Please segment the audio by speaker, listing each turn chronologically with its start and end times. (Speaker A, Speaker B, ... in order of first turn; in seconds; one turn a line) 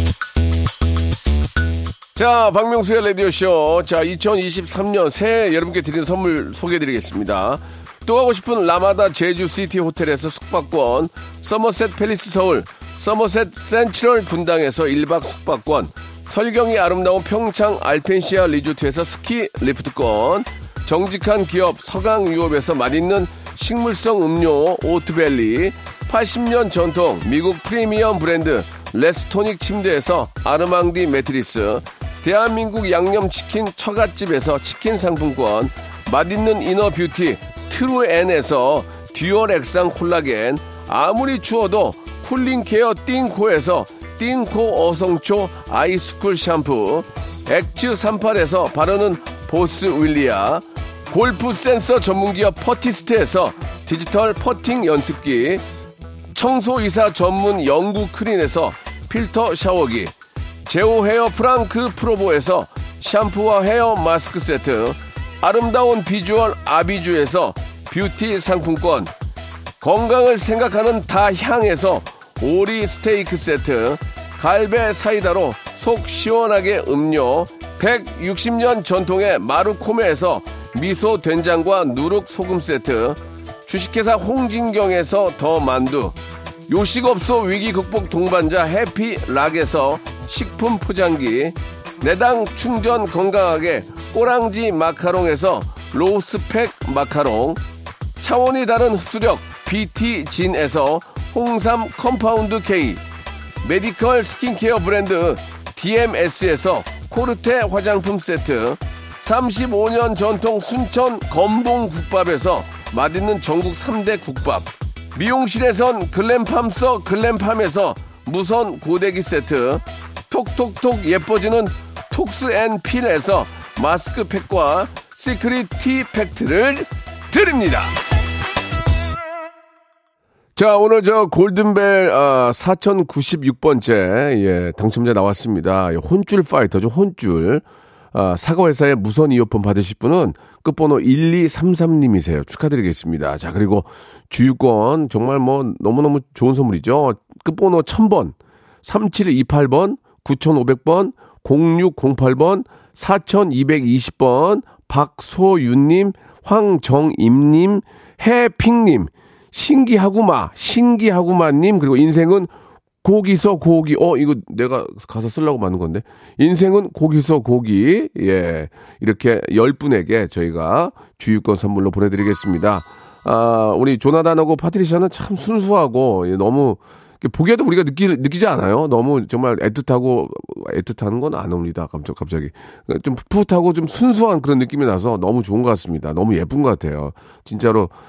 Speaker A: 2.1-55.6
Speaker A: 56.3-60.1
Speaker A: 60.7-69.1
Speaker A: 69.8-86.2
Speaker A: 86.7-97.6
Speaker A: 98.2-103.0
Speaker A: 103.6-128.0
Speaker A: 130.6-162.5
Speaker A: 163.0-187.9